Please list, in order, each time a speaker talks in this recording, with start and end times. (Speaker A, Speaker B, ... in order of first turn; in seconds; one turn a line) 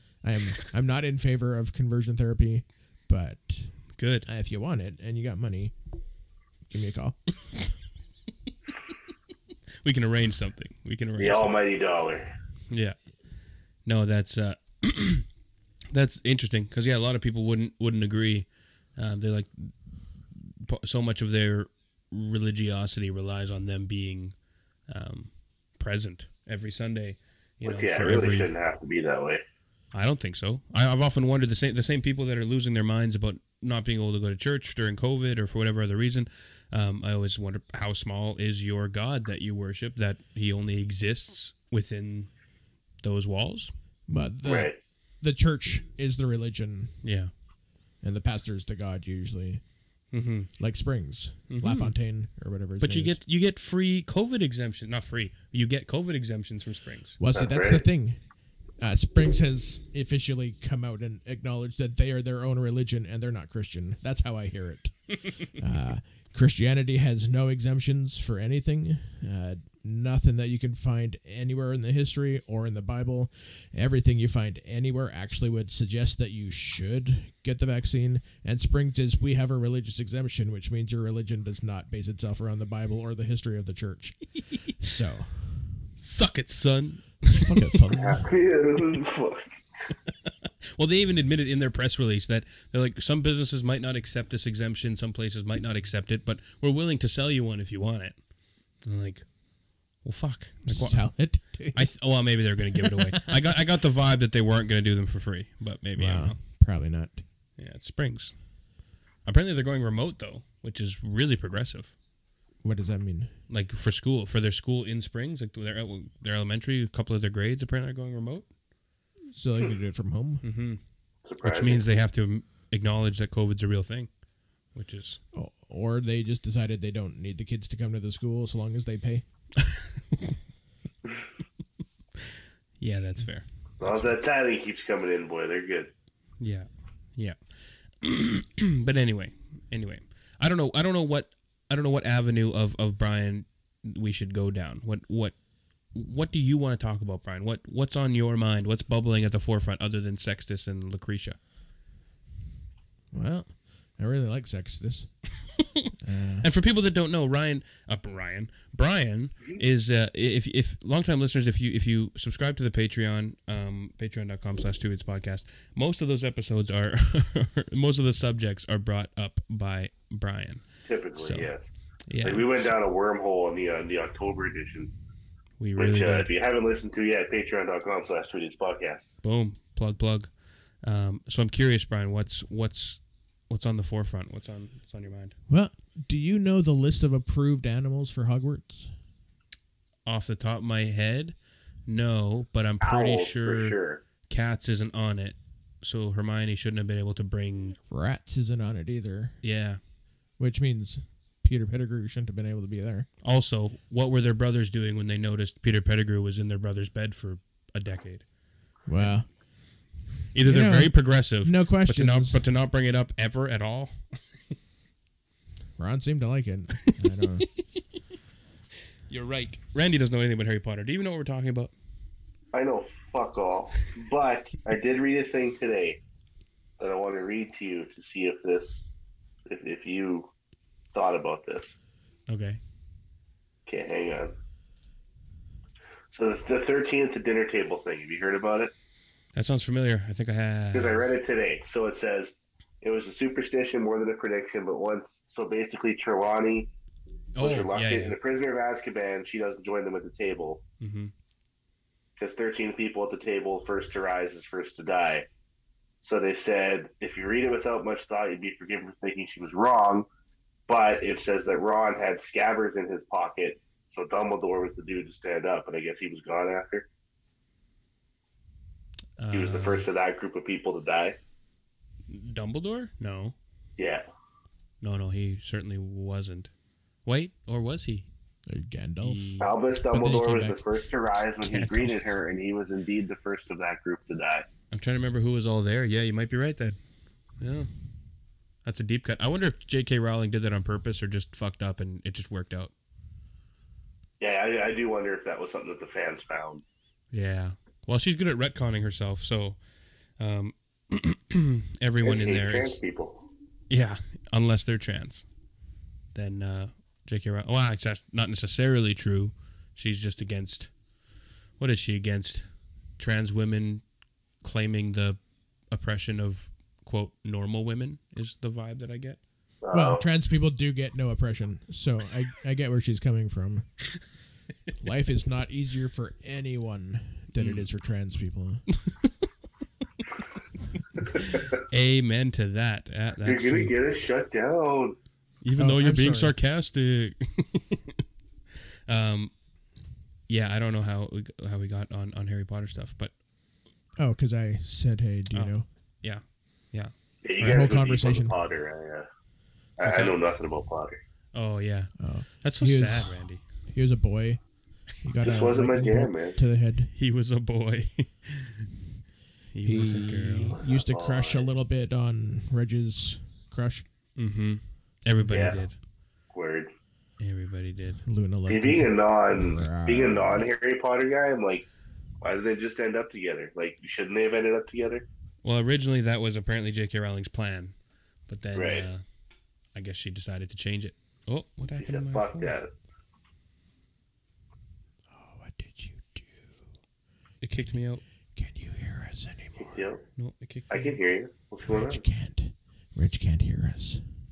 Speaker A: 0.2-5.7
Speaker B: 4.0-4.3
Speaker A: 6.7-7.2
Speaker B: 9.8-11.5
Speaker C: 11.2-12.3
Speaker B: 12.7-13.0
Speaker B: 13.8-15.3
Speaker B: 15.9-19.7
Speaker B: 20.5-24.4
Speaker B: 24.9-28.5
Speaker C: 27.6-29.4
Speaker B: 29.9-42.3
Speaker B: 43.0-43.7
Speaker A: 44.1-47.0
Speaker C: 44.4-44.8
Speaker B: 47.0-47.3
Speaker A: 48.0-49.6
Speaker B: 50.1-50.5
Speaker A: 50.6-53.2
Speaker B: 51.5-51.9
Speaker B: 52.8-57.2
Speaker A: 57.2-58.2
Speaker C: 57.3-57.8
Speaker A: 58.8-85.7
Speaker B: 86.0-87.7
Speaker A: 87.3-88.3
Speaker C: 87.9-89.6
Speaker B: 90.8-98.2
Speaker B: 98.8-99.3
Speaker B: 100.0-101.1
Speaker A: 100.7-101.9
Speaker B: 101.7-106.4
Speaker A: 102.7-103.3
Speaker A: 106.0-107.2
Speaker B: 107.6-108.3
Speaker B: 109.3-111.9
Speaker A: 112.6-113.3
Speaker B: 113.5-118.5
Speaker A: 119.3-120.4
Speaker B: 120.4-120.8
Speaker C: 121.2-121.8
Speaker B: 121.4-124.1
Speaker B: 124.7-125.2
Speaker A: 125.3-129.2
Speaker B: 129.6-130.3
Speaker B: 132.8-134.1
Speaker C: 133.8-135.9
Speaker B: 136.4-137.4
Speaker B: 138.0-145.4
Speaker B: 145.9-151.4
Speaker A: 153.1-155.1
Speaker A: 156.0-156.5
Speaker B: 156.4-170.7
Speaker C: 170.9-171.7
Speaker B: 171.2-171.5
Speaker B: 172.1-172.6
Speaker C: 172.2-174.9
Speaker B: 175.6-176.3
Speaker C: 175.8-179.1
Speaker B: 179.2-185.3
Speaker A: 185.5-188.9
Speaker B: 190.1-197.8
Speaker C: 192.8-194.0
Speaker A: 197.9-199.3
Speaker B: 199.4-199.8
Speaker A: 200.4-203.1
Speaker B: 203.2-208.3
Speaker A: 208.9-209.3
Speaker B: 210.3-214.2
Speaker A: 210.4-212.4
Speaker A: 215.8-217.5
Speaker B: 219.1-221.7
Speaker C: 222.5-226.0
Speaker C: 226.8-228.8
Speaker C: 229.5-230.3
Speaker C: 230.9-231.7
Speaker B: 232.3-232.6
Speaker C: 233.7-234.3
Speaker C: 236.1-238.7
Speaker B: 239.3-241.1
Speaker C: 240.7-246.7
Speaker B: 247.4-248.2
Speaker C: 247.4-250.6
Speaker B: 250.8-251.1
Speaker C: 252.2-255.3
Speaker C: 256.0-260.1
Speaker C: 260.7-266.9
Speaker B: 269.2-269.9
Speaker C: 269.3-271.2
Speaker B: 272.1-273.4
Speaker C: 273.8-274.1
Speaker B: 274.8-276.5
Speaker B: 277.1-278.1
Speaker A: 278.5-280.6
Speaker B: 279.0-279.5
Speaker C: 279.4-284.5
Speaker B: 281.4-282.0
Speaker B: 284.7-286.8
Speaker B: 287.4-287.7
Speaker B: 288.6-292.7
Speaker C: 294.2-296.6
Speaker B: 297.1-299.6
Speaker B: 300.2-302.8
Speaker C: 302.0-303.2
Speaker B: 303.7-305.3
Speaker B: 306.1-310.7
Speaker B: 311.6-312.4
Speaker B: 313.0-313.8
Speaker B: 314.4-315.2
Speaker B: 315.7-319.2
Speaker C: 319.6-320.1
Speaker A: 319.7-323.7
Speaker A: 324.8-328.6
Speaker B: 327.4-327.7
Speaker C: 331.3-331.5
Speaker B: 331.7-333.8
Speaker C: 333.2-335.0
Speaker B: 335.4-338.0
Speaker A: 335.6-336.4
Speaker B: 338.9-339.3
Speaker B: 340.3-343.1
Speaker A: 344.0-345.7
Speaker B: 345.3-347.6
Speaker C: 347.2-349.1
Speaker A: 347.4-348.3
Speaker C: 349.8-351.0
Speaker B: 349.8-350.2
Speaker B: 351.3-353.4
Speaker A: 352.0-354.4
Speaker A: 355.0-356.9
Speaker C: 355.2-356.4
Speaker B: 356.9-358.7
Speaker B: 359.5-360.6
Speaker A: 359.6-363.9
Speaker C: 360.6-361.5
Speaker B: 364.2-365.8
Speaker C: 365.2-365.6
Speaker C: 366.3-366.7
Speaker B: 367.2-368.0
Speaker A: 368.1-370.5
Speaker C: 368.5-371.7
Speaker C: 372.2-375.1
Speaker B: 375.4-377.8
Speaker B: 378.3-379.0
Speaker C: 378.6-378.9
Speaker B: 379.8-382.6
Speaker C: 381.8-382.7
Speaker A: 385.1-386.6
Speaker B: 387.4-388.0
Speaker A: 388.4-389.9
Speaker C: 389.6-390.0
Speaker B: 390.2-391.0
Speaker C: 390.7-392.0
Speaker A: 391.7-394.0